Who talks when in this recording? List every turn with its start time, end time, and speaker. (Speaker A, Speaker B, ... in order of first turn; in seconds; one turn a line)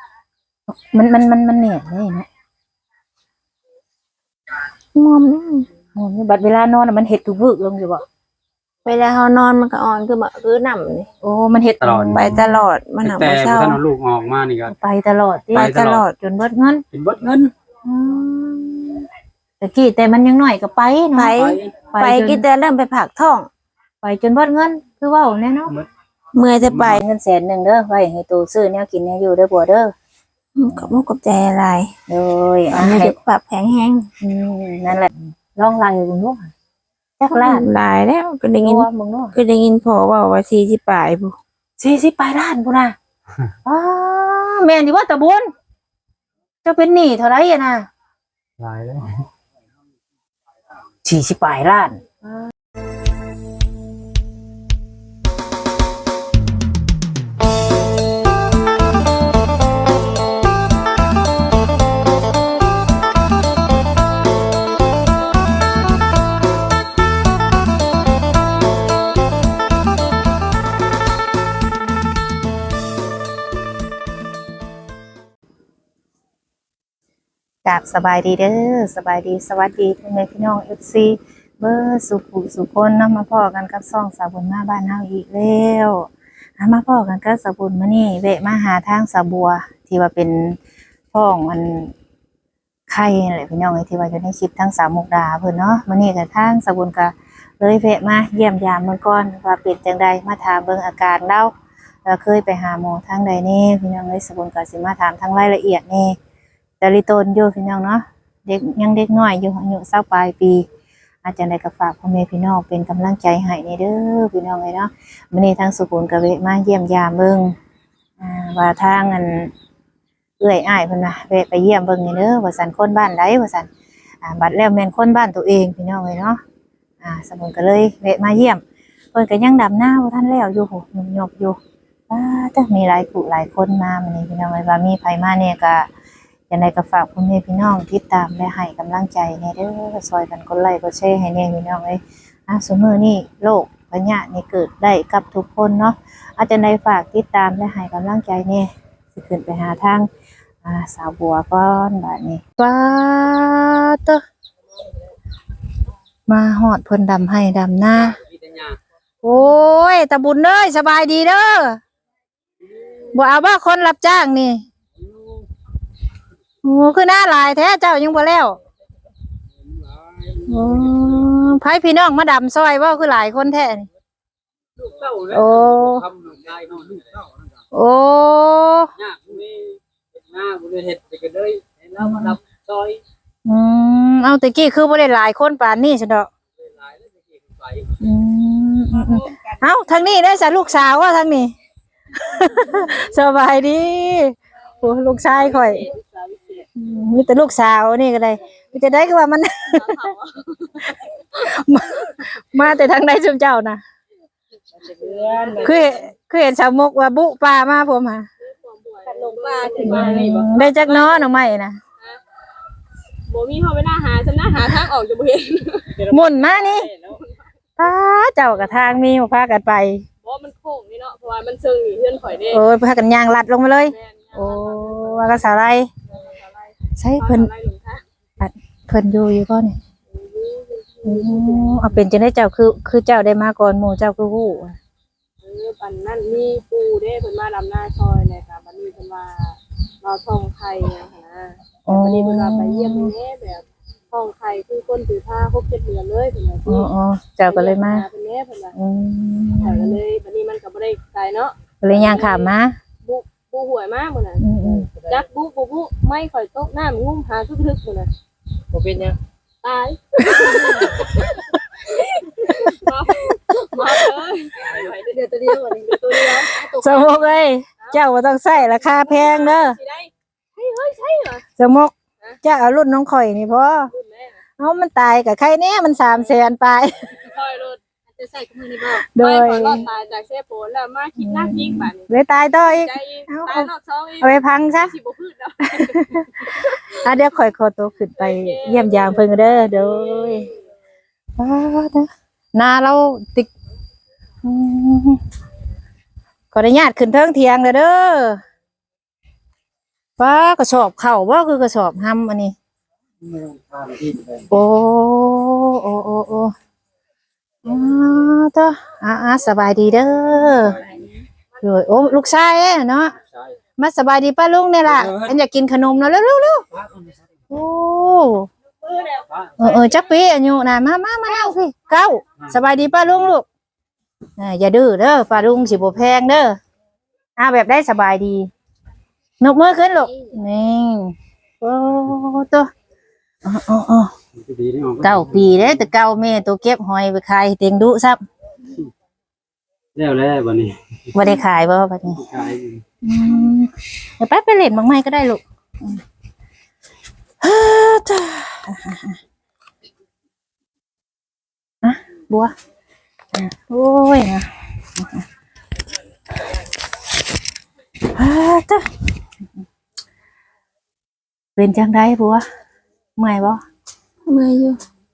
Speaker A: 0.7-2.3
Speaker B: 5.0-5.7
Speaker A: 6.0-8.0
Speaker B: 8.8-11.1
Speaker A: 11.2-12.6
Speaker C: 11.8-12.4
Speaker B: 12.1-13.8
Speaker C: 13.0-14.7
Speaker A: 14.7-16.8
Speaker B: 15.5-16.1
Speaker C: 15.5-16.0
Speaker C: 16.9-17.5
Speaker A: 17.8-19.1
Speaker A: 19.6-21.3
Speaker B: 21.1-23.5
Speaker C: 21.3-21.8
Speaker A: 21.9-22.4
Speaker A: 24.0-25.7
Speaker B: 26.3-27.0
Speaker C: 26.6-27.0
Speaker A: 27.0-29.9
Speaker B: 30.6-31.9
Speaker A: 32.1-33.2
Speaker B: 32.7-34.1
Speaker A: 34.2-36.5
Speaker A: 37.2-37.7
Speaker B: 37.3-41.4
Speaker A: 38.6-39.3
Speaker A: 41.8-43.0
Speaker A: 43.6-45.5
Speaker A: 46.6-47.9
Speaker C: 48.6-49.2
Speaker A: 51.0-52.0
Speaker A: 77.6-90.6
Speaker A: 91.1-91.9
Speaker A: 92.9-101.5
Speaker A: 102.0-106.2
Speaker A: 106.8-110.7
Speaker A: 111.2-117.5
Speaker A: 118.2-119.5
Speaker A: 120.4-123.7
Speaker A: 124.2-126.4
Speaker A: 127.0-128.6
Speaker A: 129.1-131.6
Speaker A: 132.1-135.9
Speaker A: 136.5-150.1
Speaker A: 150.6-154.2
Speaker A: 156.3-158.2
Speaker A: 159.2-161.8
Speaker A: 163.1-164.7
Speaker A: 166.6-168.6
Speaker C: 170.3-170.9
Speaker A: 170.5-173.9
Speaker C: 174.8-177.2
Speaker A: 175.3-176.1
Speaker A: 177.7-178.9
Speaker C: 179.0-183.0
Speaker A: 182.0-182.3
Speaker A: 183.4-186.3
Speaker A: 188.0-191.5
Speaker A: 192.1-195.8
Speaker D: 195.3-196.7
Speaker A: 196.8-200.1
Speaker D: 199.7-200.9
Speaker A: 200.9-203.8
Speaker D: 204.8-205.8
Speaker A: 205.6-208.2
Speaker D: 208.4-211.2
Speaker A: 209.8-211.8
Speaker D: 213.3-217.5
Speaker A: 216.1-216.9
Speaker A: 217.8-220.1
Speaker D: 220.2-222.6
Speaker A: 222.5-225.9
Speaker D: 223.8-225.4
Speaker D: 226.1-228.0
Speaker A: 227.0-227.5
Speaker A: 228.4-229.8
Speaker D: 230.1-232.0
Speaker A: 231.1-234.8
Speaker D: 235.4-246.9
Speaker A: 241.8-243.1
Speaker A: 246.7-248.1
Speaker D: 247.5-248.7
Speaker A: 248.8-250.0
Speaker D: 249.6-252.5
Speaker A: 251.8-252.8
Speaker D: 253.0-254.4
Speaker A: 254.4-254.9
Speaker D: 255.0-258.1
Speaker D: 259.6-267.3
Speaker A: 260.3-261.2
Speaker A: 262.5-264.1
Speaker A: 265.4-269.8
Speaker D: 268.9-271.4
Speaker A: 271.6-273.9
Speaker D: 273.9-274.4
Speaker A: 274.6-277.1
Speaker D: 277.1-286.9
Speaker A: 278.9-279.9
Speaker A: 281.2-284.9
Speaker A: 285.7-290.5
Speaker D: 288.2-290.4
Speaker A: 291.4-293.5
Speaker A: 294.4-295.2
Speaker A: 296.5-298.4
Speaker A: 300.2-302.6
Speaker C: 303.2-304.3
Speaker A: 304.5-306.5
Speaker A: 307.6-310.8
Speaker A: 311.6-313.1
Speaker A: 313.8-316.7
Speaker C: 314.9-315.4
Speaker C: 316.8-317.1
Speaker A: 317.5-318.5
Speaker C: 319.3-319.6
Speaker A: 319.6-323.4
Speaker A: 324.4-326.6
Speaker A: 327.4-328.5
Speaker A: 329.4-332.7
Speaker A: 333.4-334.1
Speaker C: 334.4-335.8
Speaker A: 335.0-338.2
Speaker C: 339.9-340.8
Speaker A: 341.1-342.2
Speaker C: 342.2-342.8
Speaker A: 343.0-346.0
Speaker A: 347.4-349.2
Speaker A: 351.8-352.5
Speaker A: 353.4-355.2
Speaker A: 358.1-358.9
Speaker A: 361.6-362.4
Speaker A: 363.2-363.6
Speaker B: 364.3-364.8